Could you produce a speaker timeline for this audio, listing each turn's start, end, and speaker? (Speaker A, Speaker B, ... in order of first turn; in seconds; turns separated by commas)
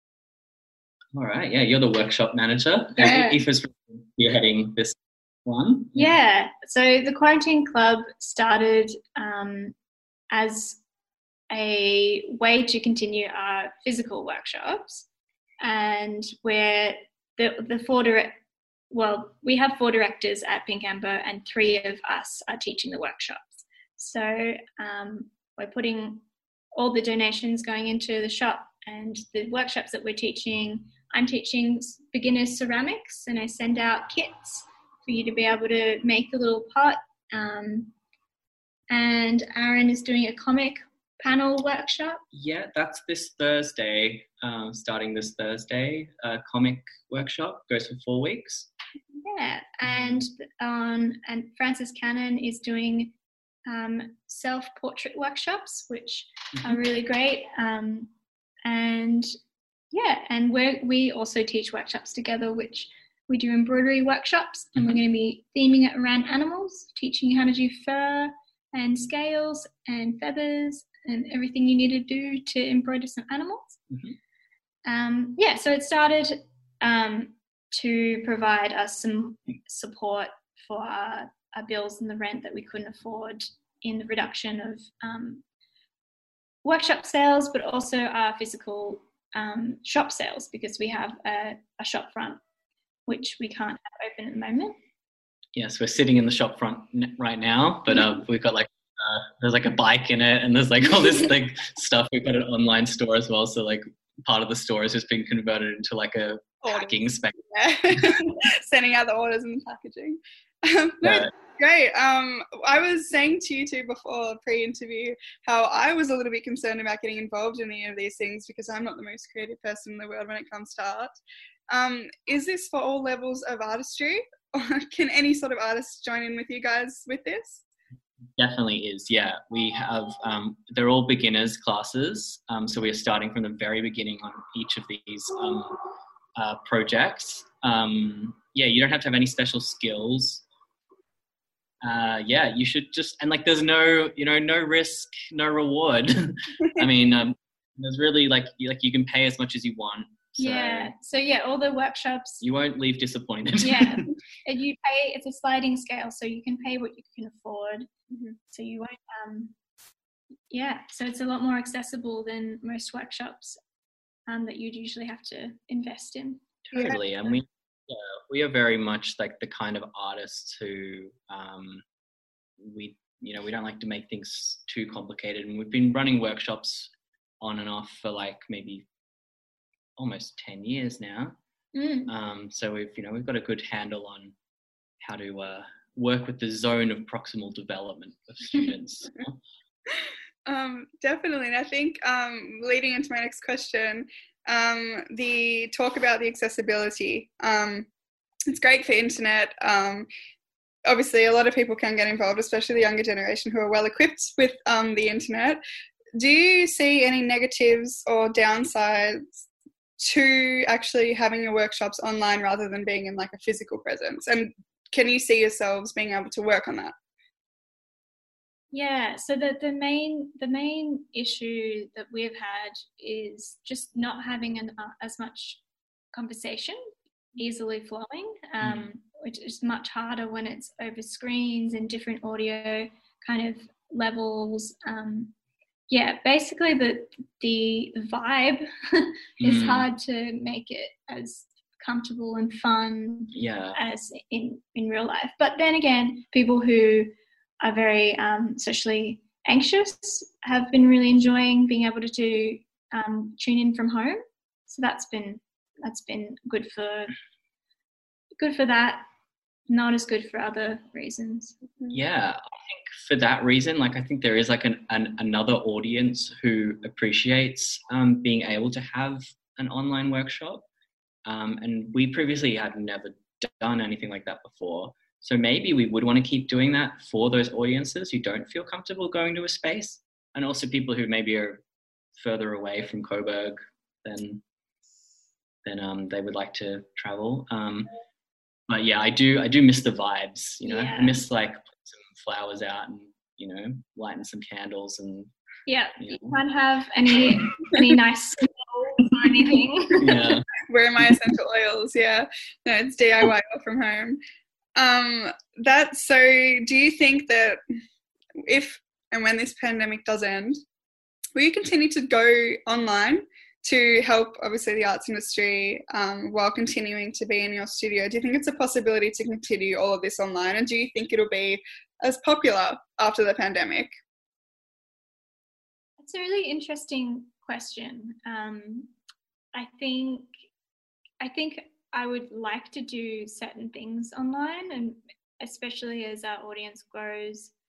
Speaker A: 1.1-6.2, Speaker B: 3.0-3.4, Speaker B: 6.0-9.8, Speaker B: 10.3-10.8, Speaker B: 11.5-15.1, Speaker B: 15.6-18.4, Speaker B: 18.9-26.2, Speaker B: 26.8-37.9, Speaker B: 38.9-42.2, Speaker A: 42.3-48.7, Speaker B: 49.2-53.1, Speaker A: 49.9-50.2, Speaker B: 53.7-58.1, Speaker B: 58.6-59.3, Speaker B: 59.9-73.8, Speaker A: 73.9-74.2, Speaker B: 74.8-85.4, Speaker B: 86.7-92.4, Speaker B: 93.1-94.8, Speaker A: 95.5-107.4, Speaker C: 106.6-106.9, Speaker C: 107.5-121.2, Speaker A: 111.0-111.3, Speaker C: 121.7-127.6, Speaker A: 128.4-135.8, Speaker A: 136.4-140.4, Speaker A: 141.8-150.9, Speaker B: 150.4-152.4, Speaker A: 152.4-154.1, Speaker B: 153.6-157.9, Speaker C: 158.1-158.4, Speaker B: 158.5-159.5, Speaker B: 160.5-163.6, Speaker B: 164.3-167.3, Speaker A: 166.6-171.8, Speaker A: 172.6-178.9, Speaker A: 180.0-181.4, Speaker B: 181.7-182.1, Speaker A: 182.1-184.3, Speaker A: 185.0-189.4, Speaker C: 190.5-197.9, Speaker C: 198.5-200.1, Speaker C: 200.9-205.6, Speaker C: 206.2-209.4, Speaker C: 210.0-216.9, Speaker B: 218.7-225.6, Speaker B: 226.1-226.8, Speaker B: 227.4-235.3, Speaker A: 228.6-228.9, Speaker B: 235.9-257.1, Speaker A: 239.4-239.9, Speaker A: 243.3-243.8, Speaker B: 258.4-259.1, Speaker B: 259.7-261.6, Speaker A: 261.9-270.7, Speaker A: 271.2-281.6, Speaker A: 282.2-284.4, Speaker A: 285.6-287.9, Speaker A: 288.7-295.3, Speaker B: 290.6-291.3, Speaker B: 295.7-300.3, Speaker A: 296.0-296.4, Speaker A: 300.0-300.5, Speaker C: 300.7-304.2, Speaker C: 304.8-307.6, Speaker C: 308.4-310.6, Speaker C: 311.4-323.9, Speaker B: 326.0-328.9, Speaker B: 329.5-330.3, Speaker B: 331.2-337.5